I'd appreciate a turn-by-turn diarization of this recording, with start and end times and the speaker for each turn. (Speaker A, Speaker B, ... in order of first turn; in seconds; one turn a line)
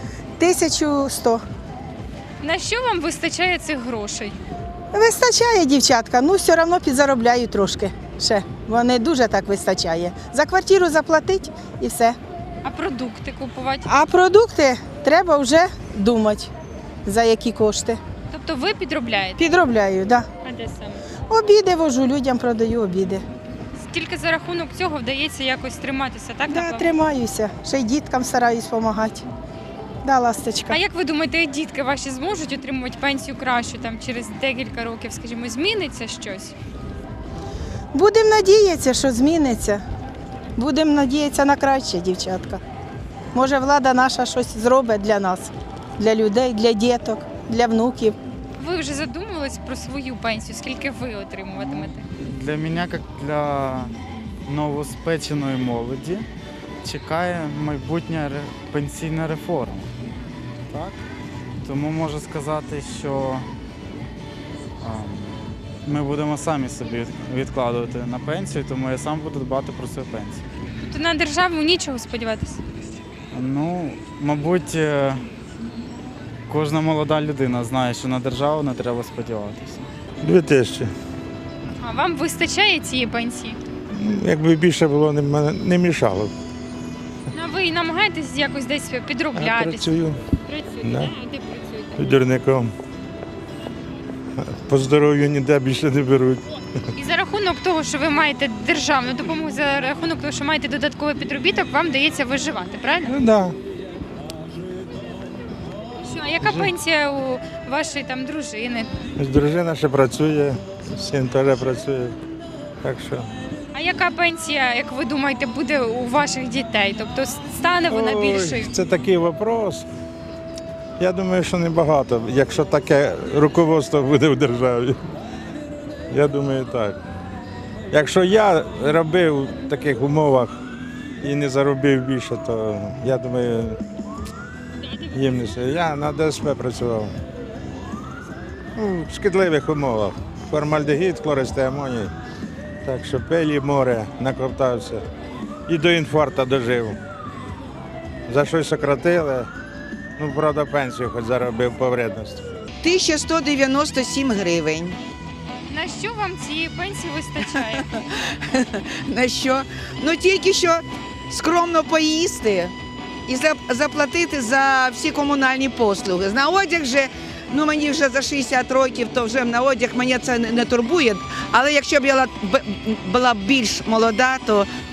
Speaker A: 0.4-1.4
Speaker B: 2.4-4.4
Speaker A: 4.9-12.2
Speaker B: 12.6-13.9
Speaker A: 13.9-16.5
Speaker A: 17.1-18.0
Speaker B: 18.3-19.5
Speaker A: 19.4-20.3
Speaker B: 20.4-21.0
Speaker A: 21.3-23.2
Speaker B: 23.8-26.9
Speaker A: 26.5-29.2
Speaker A: 30.0-30.8
Speaker B: 30.7-36.5
Speaker A: 37.9-39.8
Speaker A: 40.6-42.6
Speaker A: 43.3-48.2
Speaker B: 48.6-52.0
Speaker C: 51.6-56.3
Speaker C: 56.8-59.9
Speaker C: 60.7-61.0
Speaker C: 61.6-63.5
Speaker C: 64.8-70.5
Speaker B: 70.8-72.6
Speaker C: 73.3-75.3
Speaker C: 76.5-79.9
Speaker D: 80.2-80.9
Speaker B: 81.8-83.6
Speaker D: 83.9-86.3
Speaker B: 87.3-89.9
Speaker D: 89.4-90.2
Speaker B: 90.5-91.6
Speaker D: 90.8-91.1
Speaker D: 92.0-92.7
Speaker D: 94.7-96.4
Speaker B: 97.0-103.2
Speaker D: 103.0-103.5
Speaker B: 106.0-108.9
Speaker D: 106.4-106.7
Speaker D: 109.2-112.2
Speaker D: 112.8-113.3
Speaker B: 113.7-118.8
Speaker D: 117.9-119.9
Speaker D: 121.0-125.0
Speaker D: 126.1-127.0
Speaker D: 127.9-130.5
Speaker D: 131.2-133.8
Speaker D: 135.1-137.1
Speaker D: 138.8-142.1
Speaker D: 142.8-145.1
Speaker D: 145.7-147.0
Speaker D: 148.3-149.5
Speaker D: 150.2-152.4
Speaker E: 152.8-155.0
Speaker B: 155.7-157.8
Speaker E: 157.8-162.7
Speaker E: 163.3-174.7